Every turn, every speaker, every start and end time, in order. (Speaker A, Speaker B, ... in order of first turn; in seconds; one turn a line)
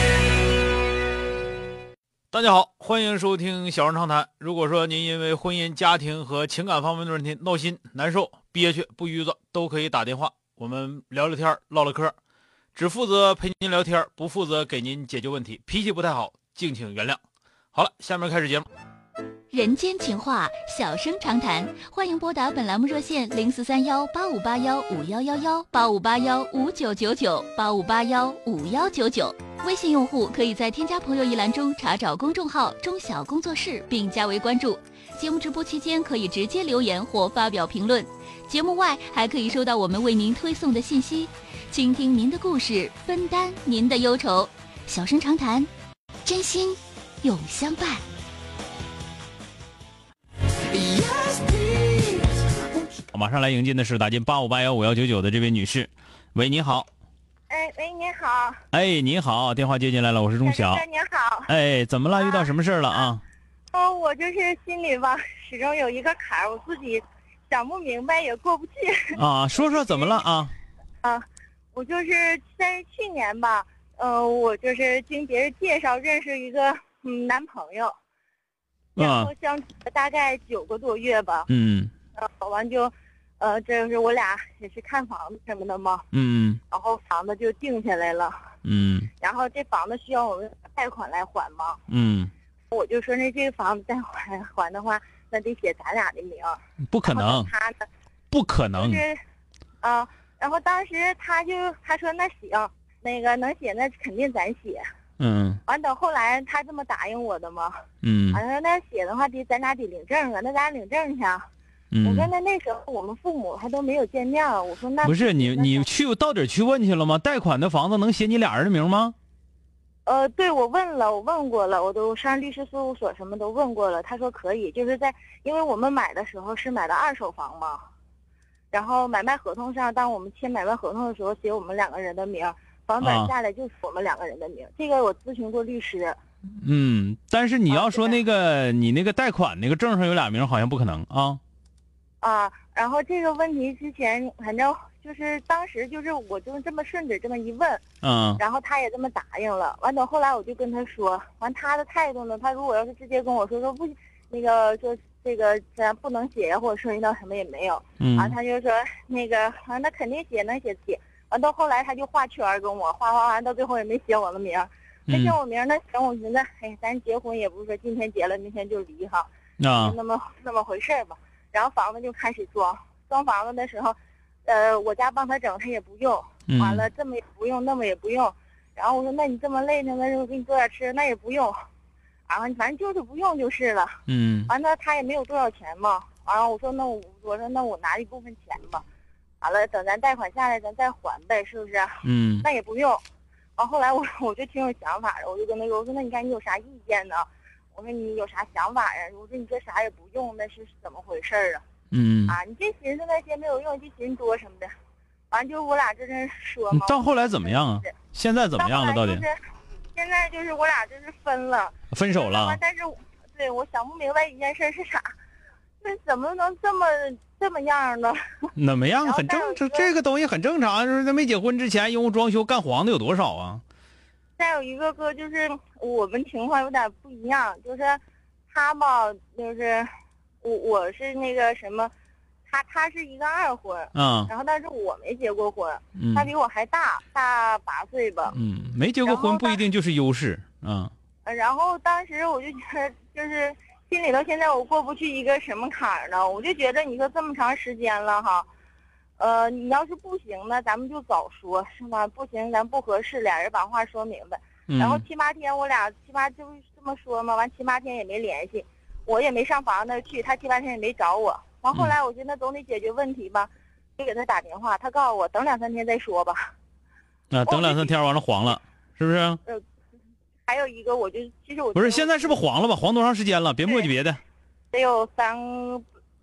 Speaker A: 2.3-12.2
Speaker A: 12.8-17.2
Speaker A: 17.7-18.7
Speaker B: 19.5-45.7
Speaker B: 46.3-48.0
Speaker A: 53.1-56.9
Speaker C: 57.5-58.6
Speaker A: 58.7-60.8
Speaker C: 60.4-61.5
Speaker A: 61.5-63.2
Speaker C: 62.2-63.1
Speaker C: 63.7-70.2
Speaker A: 69.1-70.5
Speaker C: 71.0-77.9
Speaker A: 79.0-79.3
Speaker C: 79.0-81.5
Speaker A: 81.5-81.9
Speaker C: 82.2-86.0
Speaker A: 86.1-86.6
Speaker C: 86.7-88.4
Speaker A: 88.6-89.1
Speaker C: 89.2-91.8
Speaker A: 91.9-92.3
Speaker C: 92.7-97.9
Speaker A: 96.9-97.5
Speaker A: 98.3-99.0
Speaker C: 98.8-99.2
Speaker C: 99.8-104.8
Speaker A: 105.2-105.6
Speaker C: 105.7-107.7
Speaker A: 108.0-108.4
Speaker C: 108.3-111.5
Speaker A: 111.9-112.3
Speaker C: 112.0-115.9
Speaker A: 115.0-119.2
Speaker C: 120.1-127.8
Speaker C: 128.7-136.2
Speaker A: 133.0-133.3
Speaker A: 136.6-141.4
Speaker C: 137.7-138.2
Speaker C: 142.2-147.8
Speaker A: 148.0-148.4
Speaker C: 148.4-173.9
Speaker A: 158.0-158.4
Speaker A: 165.1-165.4
Speaker A: 169.6-170.0
Speaker C: 174.5-181.5
Speaker A: 176.5-176.9
Speaker C: 182.3-188.8
Speaker A: 184.1-184.5
Speaker C: 189.4-193.0
Speaker A: 192.0-192.5
Speaker C: 193.6-201.6
Speaker A: 201.9-202.4
Speaker C: 202.3-204.7
Speaker C: 205.3-207.9
Speaker A: 206.7-209.3
Speaker C: 208.6-209.4
Speaker C: 209.9-215.1
Speaker A: 211.9-212.6
Speaker C: 215.8-218.5
Speaker A: 218.6-223.6
Speaker C: 219.0-219.9
Speaker C: 224.4-228.0
Speaker C: 228.5-229.9
Speaker C: 230.4-231.9
Speaker C: 232.5-238.4
Speaker A: 233.9-234.3
Speaker A: 236.0-236.3
Speaker A: 238.3-240.9
Speaker C: 239.0-239.6
Speaker C: 241.2-248.5
Speaker C: 249.2-266.5
Speaker A: 254.7-255.0
Speaker A: 267.3-269.4
Speaker C: 267.5-267.9
Speaker C: 270.5-272.4
Speaker A: 271.8-274.2
Speaker C: 274.7-275.9